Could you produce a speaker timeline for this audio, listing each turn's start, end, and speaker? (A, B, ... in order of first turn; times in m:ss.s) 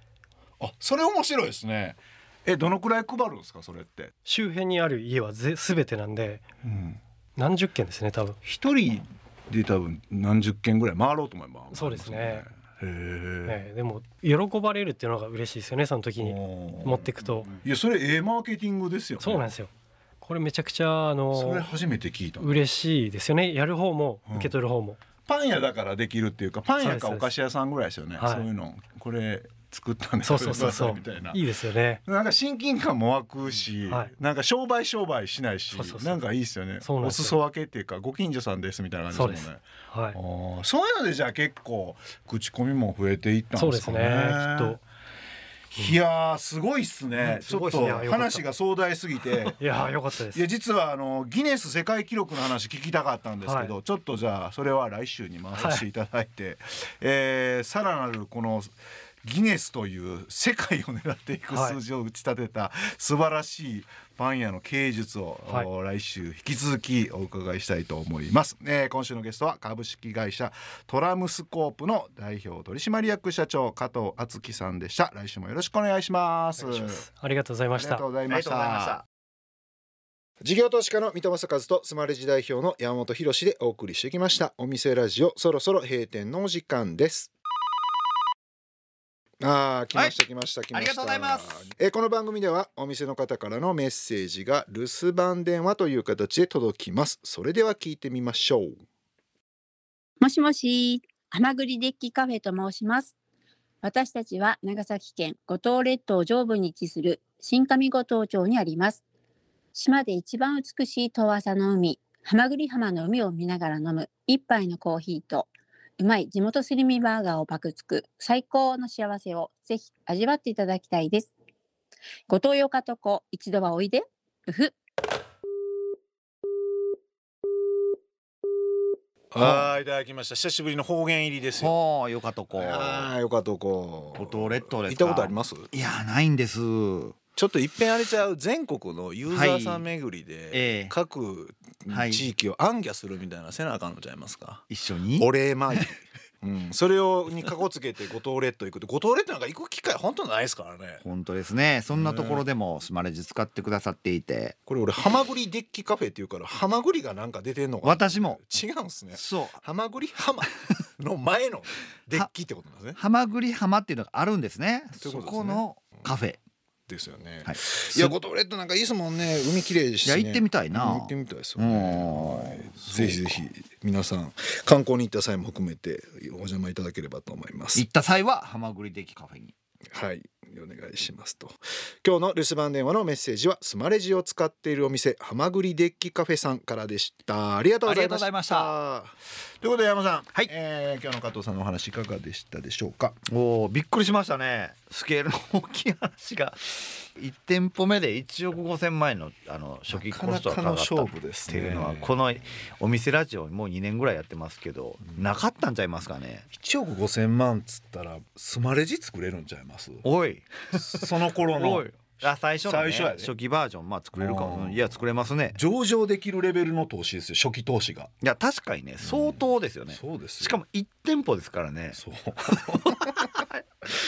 0:00.6-0:04.1 A
0:04.2-0:06.4 B
0:06.6-0:07.0 A
0:07.4-0:08.4 B
0:08.4-0:13.6 A
0:11.7-0:12.4 B
0:13.5-0:17.5 B
0:16.2-0:19.4 A
0:19.2-0:19.7 B
0:20.2-0:21.6 B
0:21.3-0:22.6 A
0:22.4-0:25.0 B
0:24.3-0:24.5 A
0:25.2-0:31.4 A
0:26.8-0:27.3 B
0:28.2-0:28.5 B
0:30.2-0:32.0 B
0:32.0-0:44.8 A
0:35.7-0:36.2 B
0:36.8-0:37.4 B
0:39.1-0:40.2 B
0:43.6-0:44.8 B
0:45.7-0:49.6 A
0:47.2-0:48.1 C
0:47.6-0:48.4 B
0:49.5-0:50.4 B
0:50.3-1:17.0 A
0:53.4-0:53.7 B
0:55.6-0:55.8 B
1:01.5-1:01.8 B
1:16.6-1:18.0 B
1:17.8-1:19.0 A
1:18.3-1:19.0 C
1:20.4-1:27.3 A
1:29.4-1:38.8 A
1:30.7-1:31.6 C
1:40.2-1:43.1 D
1:43.8-1:49.0 D
1:49.7-2:01.3 D
2:02.3-2:04.8 D
2:09.3-2:11.7 A
2:09.4-2:09.7 C
2:11.6-2:13.1 C
2:12.6-2:15.7 A
2:14.1-2:17.2 C
2:17.3-2:24.6 A
2:19.3-2:19.9 C
2:20.5-2:20.9 C
2:21.9-2:22.2 C
2:24.7-2:25.3 C
2:25.2-2:31.0 A
2:31.0-2:34.5 C
2:31.9-2:32.4 A
2:34.6-2:43.0 A
2:37.8-2:38.4 C
2:39.1-2:39.6 C
2:43.0-2:46.4 C
2:45.0-2:45.6 A
2:46.9-2:57.8 A
2:47.4-2:48.1 C
2:50.0-2:53.4 C
2:57.7-2:59.5 C
2:59.9-3:13.2 A
3:07.8-3:08.7 C
3:13.3-3:26.4 C
3:19.9-3:22.1 A
3:26.5-3:30.0 A
3:30.0-3:35.6 C
3:30.7-3:32.0 A
3:32.6-3:33.3 A
3:34.1-3:35.0 A
3:35.5-3:38.1 A
3:38.2-3:43.4 C
3:39.0-3:40.6 A
3:41.9-3:43.3 A